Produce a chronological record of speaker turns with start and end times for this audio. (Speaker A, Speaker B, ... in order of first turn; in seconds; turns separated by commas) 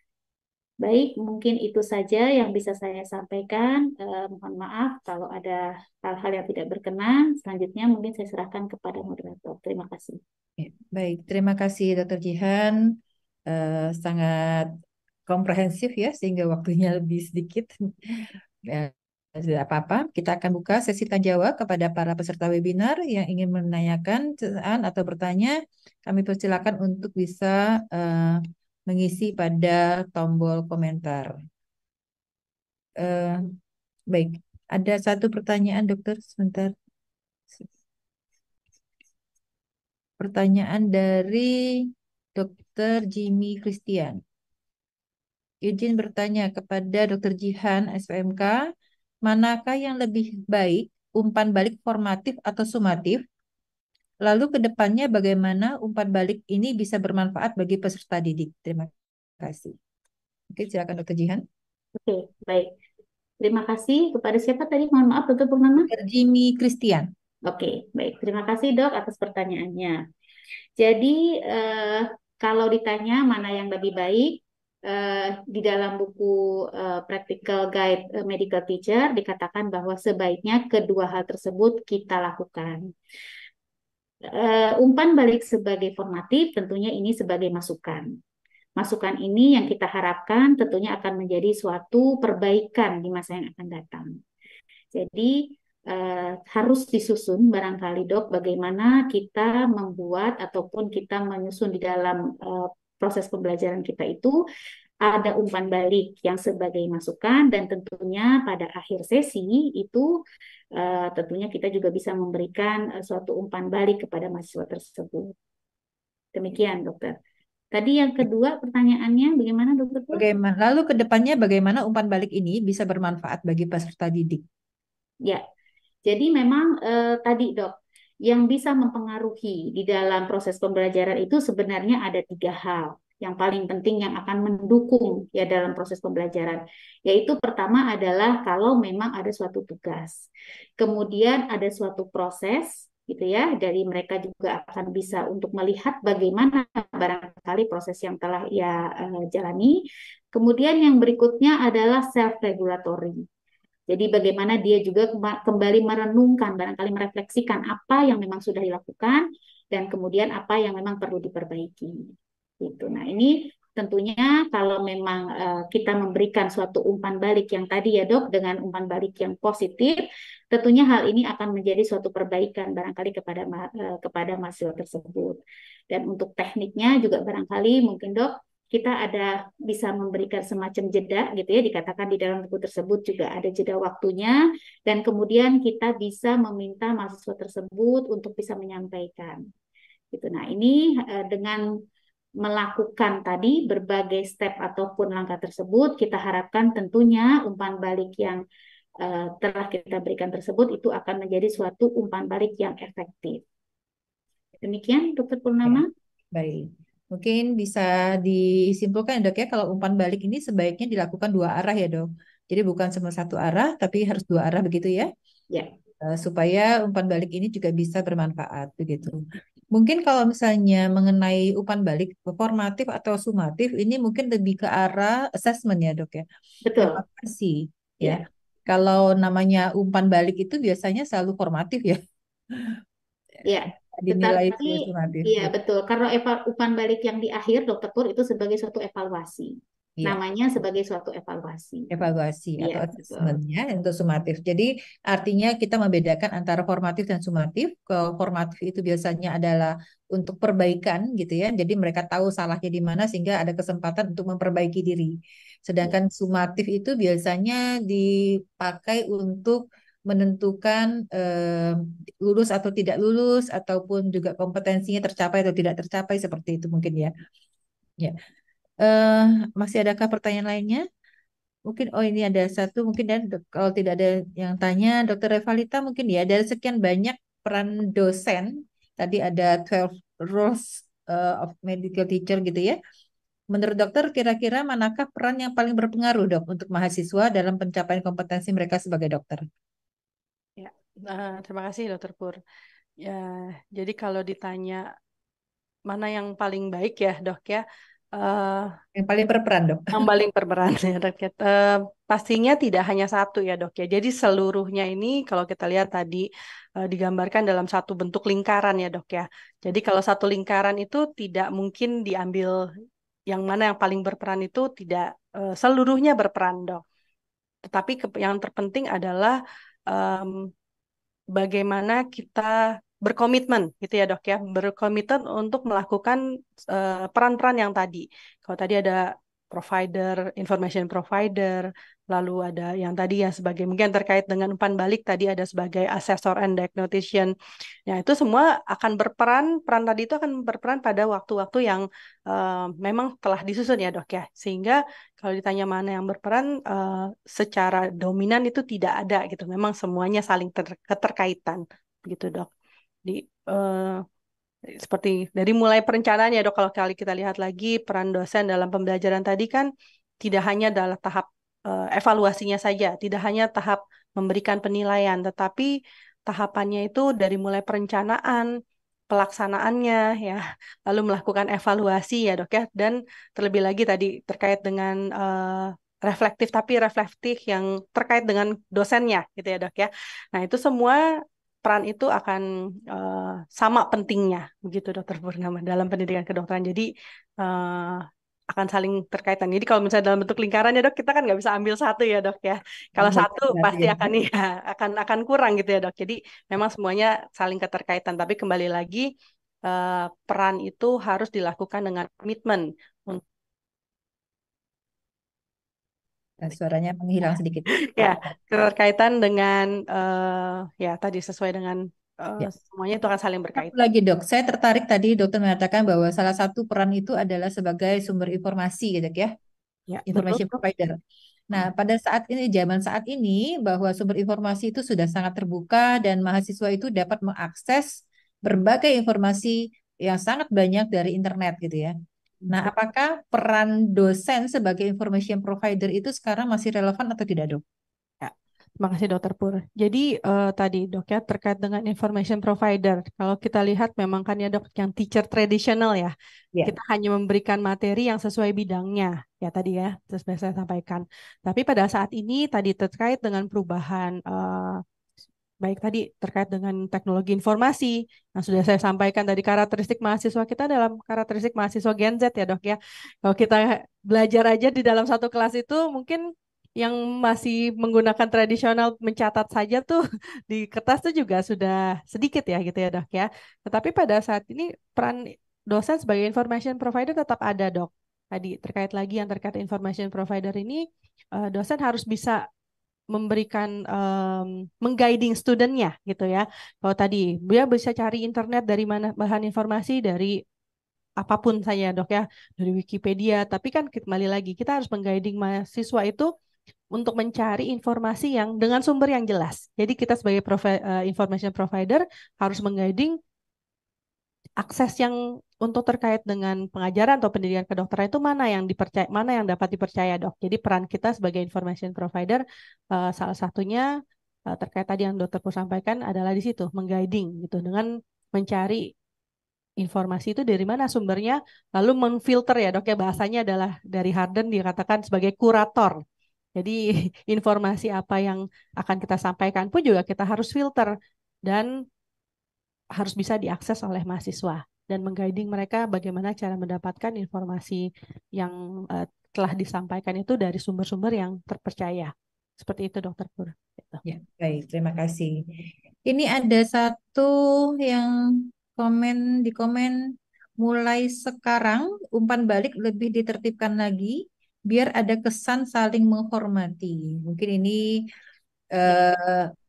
Speaker A: 0.8-10.2, Speaker B: 10.6-14.7, Speaker B: 15.3-31.3, Speaker B: 33.0-33.6, Speaker B: 34.1-36.7, Speaker B: 40.2-44.2, Speaker B: 45.6-48.6, Speaker B: 49.2-53.2, Speaker B: 54.2-59.8, Speaker B: 60.5-61.4, Speaker A: 62.0-62.7, Speaker A: 63.4-65.9, Speaker B: 65.8-67.1, Speaker A: 67.4-70.0, Speaker A: 70.8-82.8, Speaker A: 84.3-88.1, Speaker A: 88.8-94.1, Speaker A: 94.9-104.4, Speaker A: 105.0-110.1, Speaker A: 110.8-115.3, Speaker A: 116.3-117.2, Speaker A: 117.7-120.2, Speaker B: 120.1-124.4, Speaker A: 126.0-140.2, Speaker A: 140.8-149.8, Speaker A: 150.3-153.2, Speaker A: 153.9-175.4, Speaker A: 175.9-189.4, Speaker A: 190.1-191.6, Speaker A: 192.4-198.4, Speaker A: 199.0-203.4, Speaker A: 204.6-205.9, Speaker B: 205.6-215.1, Speaker B: 216.0-219.2, Speaker B: 219.7-226.2, Speaker A: 226.6-227.0, Speaker B: 226.8-232.0, Speaker A: 233.4-241.9, Speaker B: 234.1-235.5, Speaker B: 241.9-255.1, Speaker A: 242.6-243.3, Speaker B: 255.7-258.1, Speaker B: 258.6-267.1, Speaker B: 268.8-270.8, Speaker B: 271.7-282.8, Speaker B: 283.5-289.4, Speaker C: 290.6-292.4, Speaker C: 293.0-294.8, Speaker C: 295.9-297.6, Speaker C: 298.1-298.7, Speaker B: 298.9-299.9, Speaker C: 299.9-306.2, Speaker C: 306.8-312.5, Speaker C: 313.3-316.8, Speaker C: 317.6-319.4, Speaker C: 319.9-320.5, Speaker C: 321.3-337.3, Speaker C: 337.9-352.5, Speaker C: 353.1-354.0, Speaker C: 354.8-359.7, Speaker C: 360.2-365.7, Speaker C: 366.3-368.5, Speaker C: 369.1-381.0, Speaker C: 381.6-386.9, Speaker C: 387.4-399.1, Speaker B: 393.0-394.1, Speaker C: 399.6-403.2, Speaker B: 406.4-408.3, Speaker C: 407.8-413.8, Speaker B: 413.6-419.3, Speaker C: 419.9-420.5, Speaker B: 420.1-420.9, Speaker B: 421.5-431.9, Speaker B: 432.5-437.6, Speaker C: 438.2-454.8, Speaker C: 455.6-466.3, Speaker C: 466.8-480.8, Speaker C: 481.4-482.4, Speaker C: 483.1-490.4, Speaker C: 491.2-496.3, Speaker C: 496.9-503.1, Speaker C: 504.6-512.4, Speaker C: 512.9-513.9, Speaker C: 514.5-518.8, Speaker C: 519.8-526.0, Speaker C: 526.5-530.9, Speaker C: 533.0-537.9, Speaker C: 538.4-544.0, Speaker B: 544.0-547.3, Speaker B: 547.8-548.1, Speaker B: 548.7-550.0, Speaker B: 550.6-558.0, Speaker B: 558.7-559.5